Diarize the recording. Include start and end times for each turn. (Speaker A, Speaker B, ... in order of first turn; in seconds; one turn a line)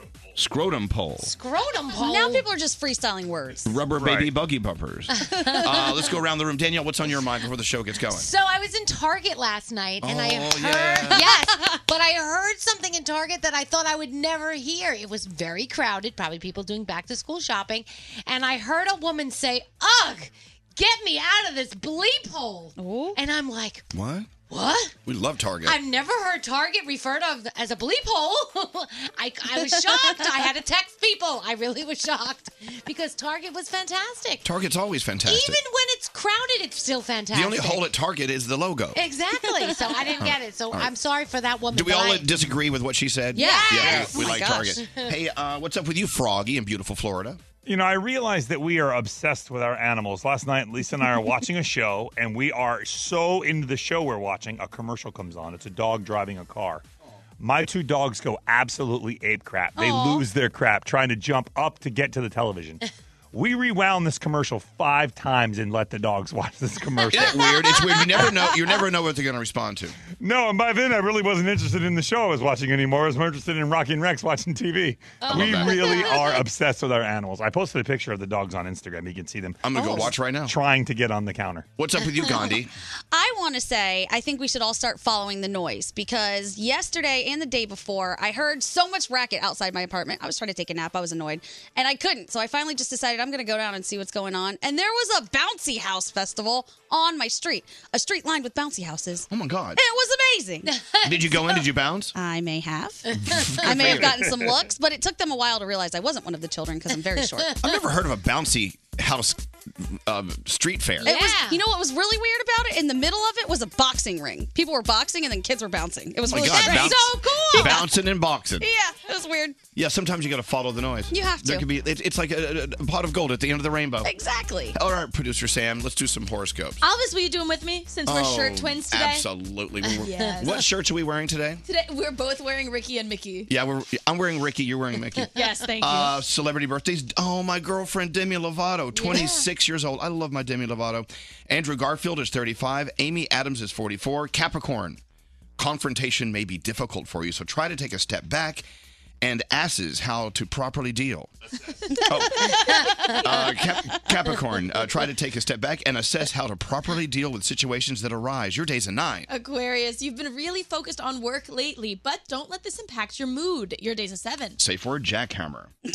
Speaker A: 0.3-1.3
Speaker B: 1.2-2.5
Speaker C: 1.9-3.8
Speaker A: 3.6-8.3
Speaker D: 3.9-4.3
Speaker B: 5.1-6.2
Speaker B: 8.0-23.9
Speaker A: 10.0-11.4
Speaker C: 22.8-23.2
Speaker A: 23.9-24.4
Speaker B: 24.5-24.9
Speaker A: 25.0-25.8
Speaker B: 25.6-34.5
Speaker C: 29.7-30.2
Speaker A: 34.4-35.6
Speaker B: 35.2-37.9
Speaker A: 37.3-39.0
Speaker B: 38.9-42.6
Speaker C: 39.6-40.0
Speaker A: 40.2-40.9
Speaker A: 41.7-47.4
Speaker B: 43.3-45.1
Speaker C: 43.3-44.9
Speaker D: 47.6-56.8
Speaker D: 57.4-62.8
Speaker B: 59.8-60.2
Speaker D: 63.3-67.5
Speaker A: 67.1-70.0
Speaker B: 67.2-68.2
Speaker D: 70.1-79.9
Speaker B: 75.2-76.5
Speaker A: 75.3-76.2
Speaker A: 79.6-80.5
Speaker C: 79.7-80.1
Speaker D: 80.5-81.7
Speaker A: 81.8-82.7
Speaker B: 82.1-82.5
Speaker C: 82.2-82.5
Speaker C: 83.1-100.7
Speaker A: 99.3-99.8
Speaker B: 100.7-101.7
Speaker A: 101.0-102.1
Speaker C: 102.1-107.6
Speaker A: 103.1-104.5
Speaker B: 103.1-104.1
Speaker B: 107.1-107.8
Speaker A: 107.6-111.2
Speaker B: 111.0-111.6
Speaker C: 111.0-117.9
Speaker A: 116.2-118.7
Speaker B: 116.4-117.9
Speaker C: 118.6-119.6
Speaker A: 119.7-124.1
Speaker C: 121.1-121.7
Speaker C: 124.0-124.8
Speaker A: 124.7-126.8
Speaker E: 126.8-129.3
Speaker A: 128.1-131.6
Speaker B: 129.8-130.7
Speaker E: 129.9-130.6
Speaker E: 131.6-133.5
Speaker A: 133.5-145.0
Speaker B: 135.2-135.6
Speaker E: 135.3-136.2
Speaker B: 138.9-139.5
Speaker A: 145.6-148.6
Speaker A: 149.2-151.3
Speaker A: 152.1-159.3
Speaker C: 152.3-153.3
Speaker B: 152.4-153.2
Speaker E: 159.3-164.6
Speaker A: 164.6-165.7